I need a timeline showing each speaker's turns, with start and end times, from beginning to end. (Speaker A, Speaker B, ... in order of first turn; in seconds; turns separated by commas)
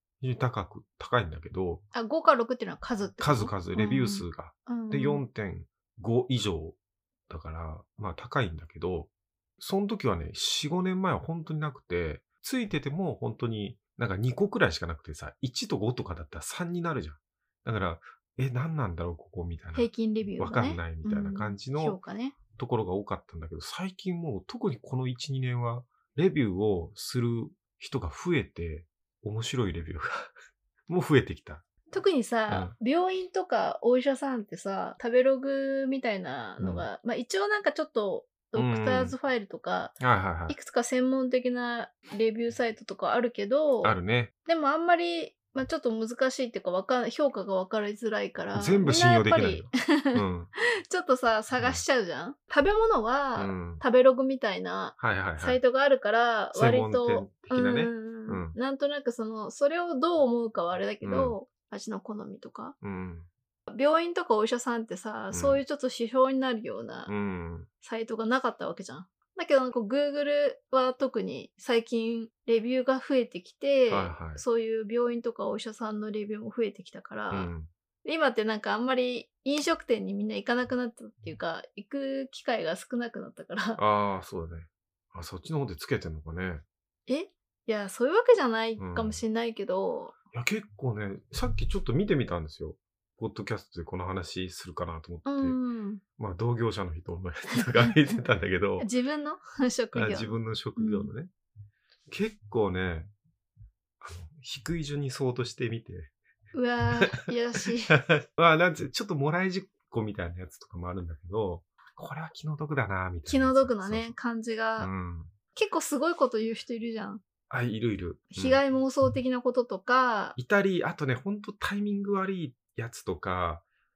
Speaker A: 0.2-1.8, Speaker B: 1.9-5.2, Speaker A: 3.2-6.8, Speaker A: 7.3-22.0, Speaker B: 19.8-22.4, Speaker A: 22.5-30.3, Speaker A: 30.9-31.6, Speaker B: 31.9-40.0, Speaker A: 32.5-32.7, Speaker A: 36.6-36.9, Speaker A: 38.5-39.1, Speaker A: 40.0-40.6, Speaker B: 40.5-50.2, Speaker A: 43.8-44.3, Speaker A: 48.5-50.5, Speaker B: 50.9-62.8, Speaker A: 51.6-51.8, Speaker A: 53.4-53.8, Speaker A: 55.0-55.6, Speaker A: 56.5-58.6, Speaker A: 61.0-61.4, Speaker A: 62.8-63.3, Speaker B: 63.7-67.1, Speaker A: 65.3-65.6, Speaker A: 67.1-67.7, Speaker B: 67.8-77.5, Speaker A: 73.9-74.4, Speaker A: 77.3-77.7, Speaker B: 78.0-83.8, Speaker A: 83.8-86.6, Speaker B: 87.1-90.1, Speaker A: 88.8-89.2, Speaker A: 90.3-95.6, Speaker B: 95.3-96.0, Speaker A: 96.2-98.9, Speaker B: 98.8-101.1, Speaker A: 99.9-101.3, Speaker A: 102.1-103.1, Speaker A: 104.0-106.1, Speaker B: 106.5-108.0, Speaker A: 107.9-114.2, Speaker B: 113.3-114.9, Speaker A: 114.8-115.3, Speaker B: 115.5-117.2, Speaker A: 117.5-118.6, Speaker B: 118.3-120.4, Speaker A: 120.4-123.6